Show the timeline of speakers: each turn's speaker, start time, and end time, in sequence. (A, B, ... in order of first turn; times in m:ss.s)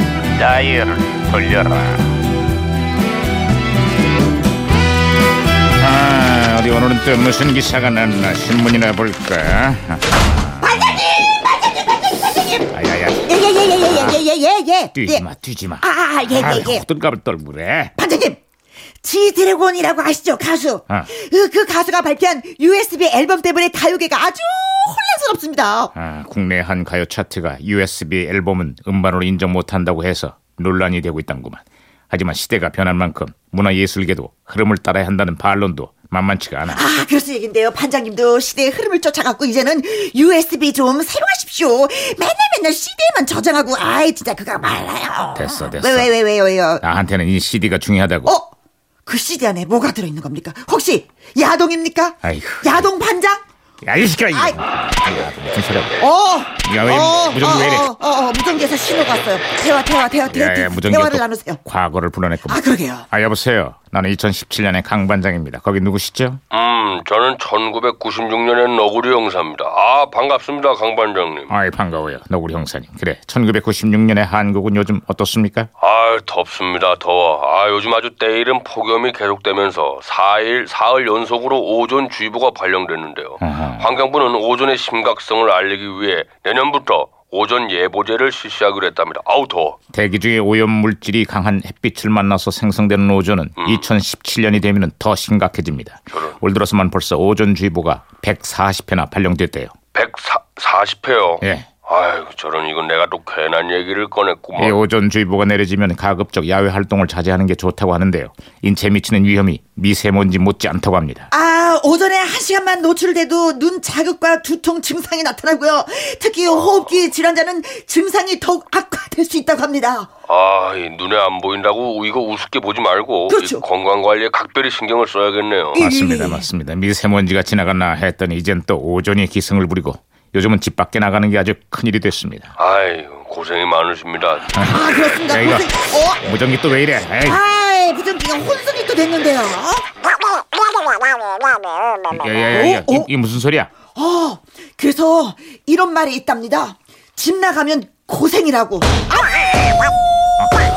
0:00.3-0:02.1 A
0:05.8-0:11.0 A
0:10.6-0:15.2 B
0:12.7-0:14.2 A
0:14.9-0:17.9 A
0:15.8-0:16.8 B
0:18.0-0:18.4 B
0:19.0-0:25.9 B
0:25.9-0:36.8 A
0:36.7-0:46.8 B
0:45.3-0:46.1 A
0:46.8-0:48.3 A
0:48.2-0:48.5 B
0:49.0-0:53.4 B
0:52.2-0:52.9 A
0:53.8-0:56.0 A
0:54.3-0:54.6 B
0:56.0-1:01.6 B
0:56.6-0:57.9 A
1:00.3-1:06.4 A
1:02.5-1:03.0 B
1:06.5-1:11.5 C
1:11.5-1:15.7 A
1:15.8-1:29.8 C
1:23.4-1:23.9 A
1:29.9-1:39.7 A
1:33.6-1:33.8 C
1:36.1-1:36.4 C
1:39.9-1:44.8 C
1:41.4-1:41.7 A
1:44.6-1:51.3 A
1:51.3-2:00.1 B
1:56.5-1:56.9 C
2:00.3-2:05.9 C
2:03.3-2:03.6 B
2:05.8-2:06.4 B
2:05.8-2:12.5 A
2:12.6-2:14.5 C
2:14.5-2:17.4 A
2:14.6-2:16.3 B
2:17.2-2:21.4 B
2:22.1-2:23.7 A
2:22.5-2:23.1 B
2:23.9-2:29.6 B